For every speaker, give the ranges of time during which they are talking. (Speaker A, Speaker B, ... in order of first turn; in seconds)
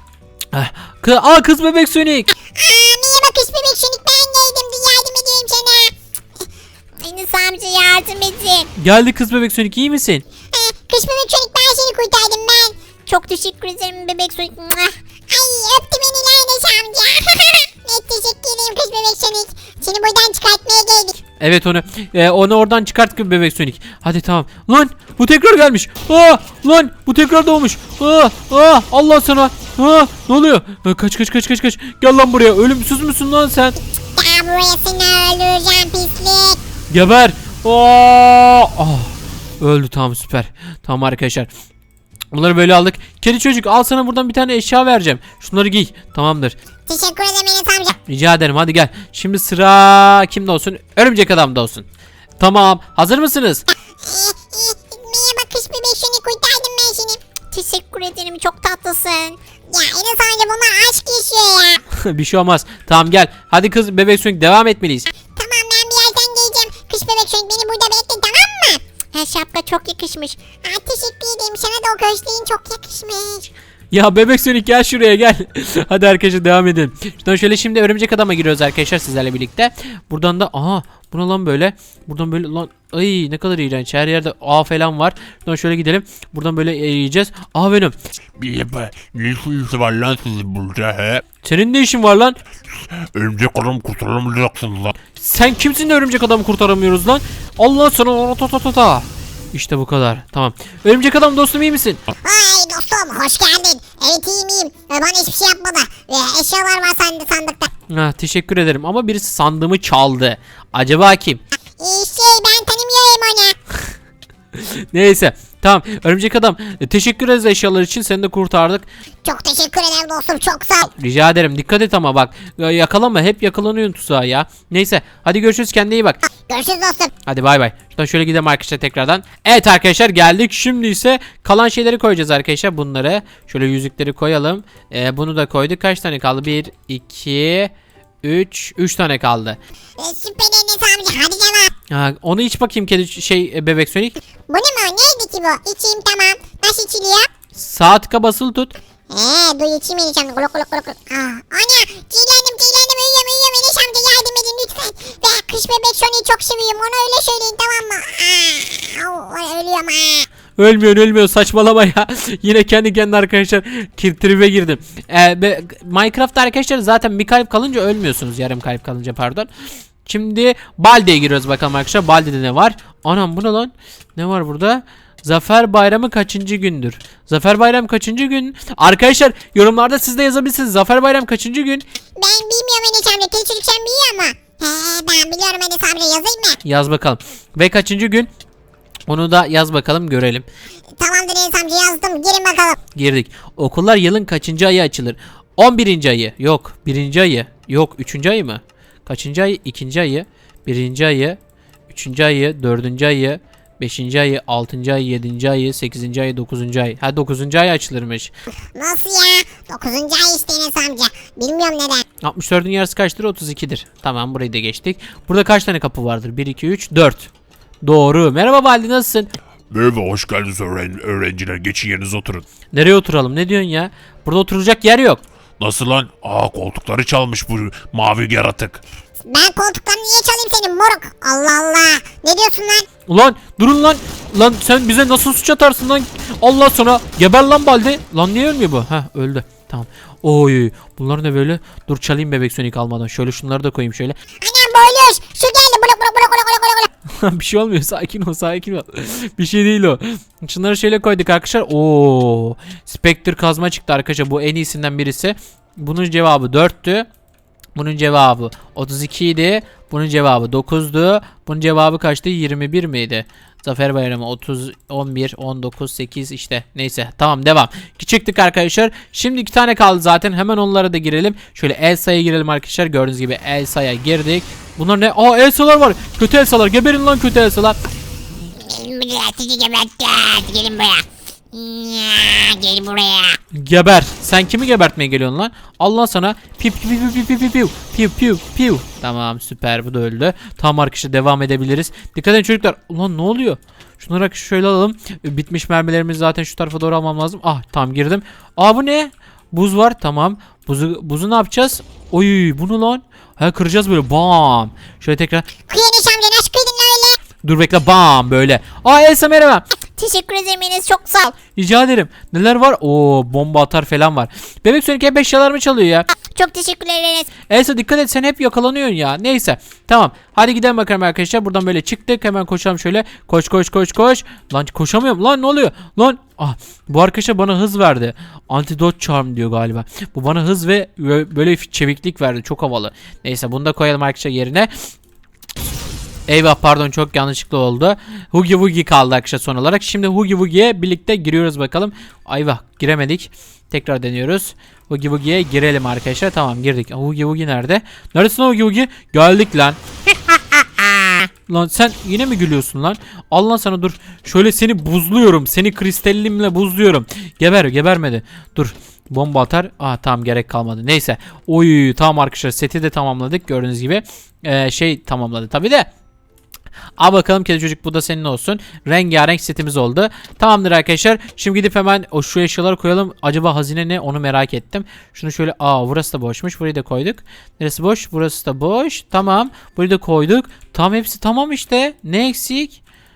Speaker A: 0.5-2.3, 8.8-10.2, 21.4-33.8, 36.9-41.5, 42.3-46.6, 48.0-51.9, 52.4-53.6, 61.9-65.1, 73.9-88.0, 91.4-92.4, 95.1-102.0, 107.9-111.4, 114.5-118.9, 121.0-126.2, 127.3-137.7, 138.2-139.6, 141.9-144.2, 147.5-148.8, 160.6-169.5, 170.1-181.8, 186.6-188.3, 189.1-190.5, 192.9-201.4, 201.9-208.3, 212.2-217.3, 217.8-219.3, 222.7-225.2, 233.1-244.2, 247.1-257.1, 257.8-277.8, 283.5-305.5, 307.4-309.6, 311.5-316.1, 317.5-334.7, 336.3-349.8, 351.5-365.9, 367.0-382.8
Speaker B: 2.5-5.9, 7.0-8.7, 10.5-21.2, 34.2-36.6, 46.9-48.0, 54.0-61.8, 65.3-73.5, 102.2-107.7, 111.8-113.6, 119.2-120.9, 126.3-127.1, 140.0-141.7, 144.5-147.3, 149.1-160.3, 182.2-186.6, 191.0-192.8, 208.8-212.1, 229.3-232.9, 244.4-246.9, 278.6-283.4, 305.7-307.2, 310.0-311.4, 316.3-317.3
Speaker C: 88.4-91.2, 93.1-95.0, 219.7-222.5, 225.6-228.8